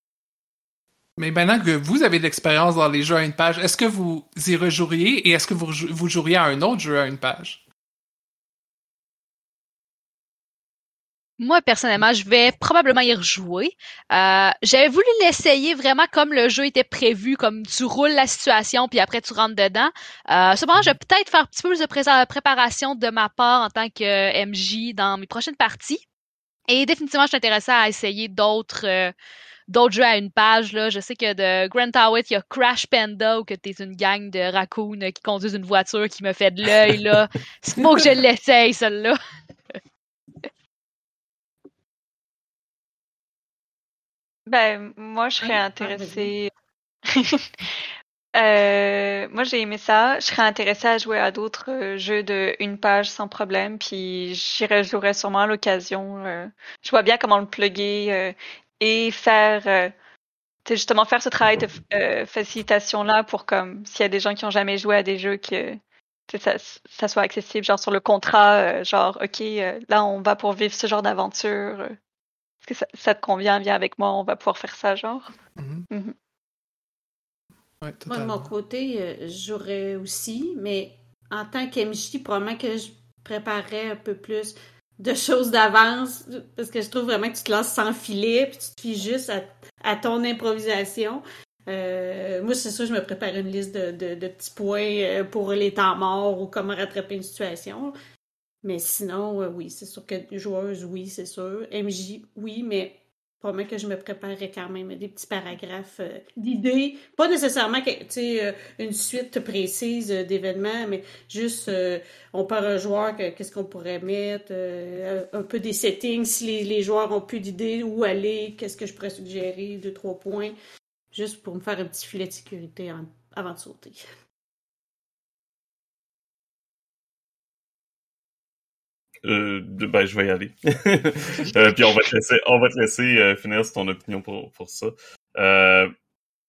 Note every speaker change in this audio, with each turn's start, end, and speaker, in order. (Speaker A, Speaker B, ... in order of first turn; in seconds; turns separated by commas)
Speaker A: 1.2-7.6, Speaker B: 11.4-26.0, Speaker B: 26.7-29.1, Speaker B: 29.7-39.2, Speaker C: 44.5-46.5, Speaker D: 45.4-46.3, Speaker C: 47.1-47.5, Speaker C: 48.4-59.9, Speaker C: 60.7-71.9, Speaker C: 72.6-75.3, Speaker A: 75.6-75.9, Speaker A: 77.8-78.5, Speaker D: 78.1-97.9, Speaker D: 98.6-120.5, Speaker D: 121.1-124.0, Speaker E: 129.2-135.9